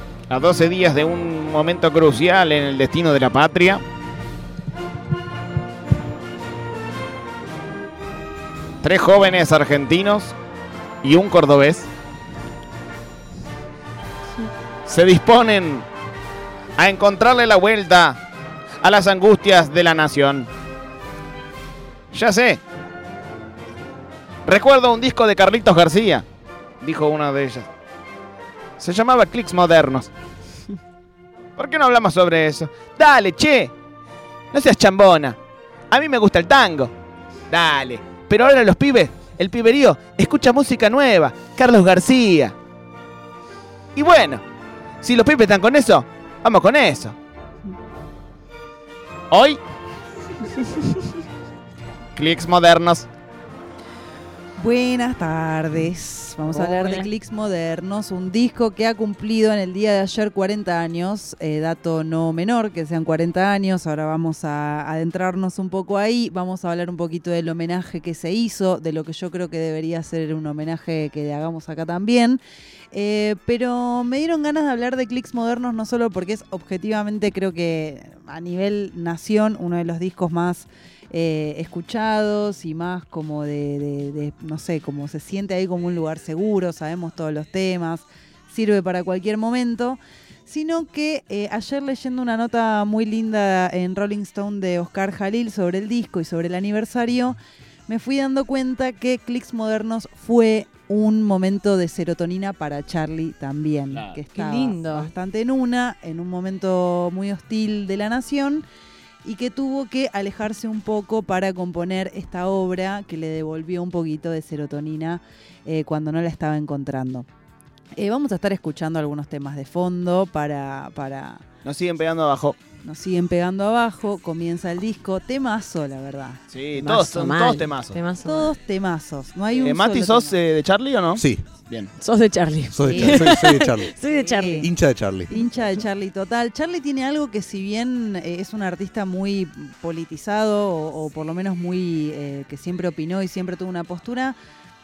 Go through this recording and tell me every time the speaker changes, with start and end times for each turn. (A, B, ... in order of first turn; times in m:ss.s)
0:00.3-0:03.8 A
0:08.8-0:10.3 A
0:11.0-0:11.9 A
0:14.8-0:15.8 A
0:16.8-0:18.2 A
0:18.8-0:20.5 A
0:22.1-0:22.6 A
0:24.4-0:26.2 A
0:26.8-0:27.7 A
0:28.8-0:30.1 A
0:31.6-0:33.7 A
0:34.5-0:35.4 A
0:35.9-0:36.9 A
0:37.5-0:42.5 A
0:43.9-0:44.4 A
0:45.0-0:47.2 A
0:49.3-0:49.6 A
0:52.1-0:53.1 A
0:54.6-1:12.4 B
0:56.5-0:57.1 C
1:12.9-1:48.6 B
1:43.9-1:44.2 A
1:44.3-1:45.1 C
1:49.2-1:57.2 B
1:58.0-2:01.4 B
2:01.6-2:02.6 A
2:02.8-2:06.4 B
2:06.5-2:08.0 A
2:06.8-2:08.5 C
2:08.2-2:10.4 B
2:09.6-2:11.9 A
2:11.2-2:11.5 D
2:12.0-2:14.7 C
2:12.7-2:13.9 D
2:12.9-2:13.5 B
2:14.1-2:14.7 B
2:14.6-2:15.3 D
2:15.3-2:24.4 B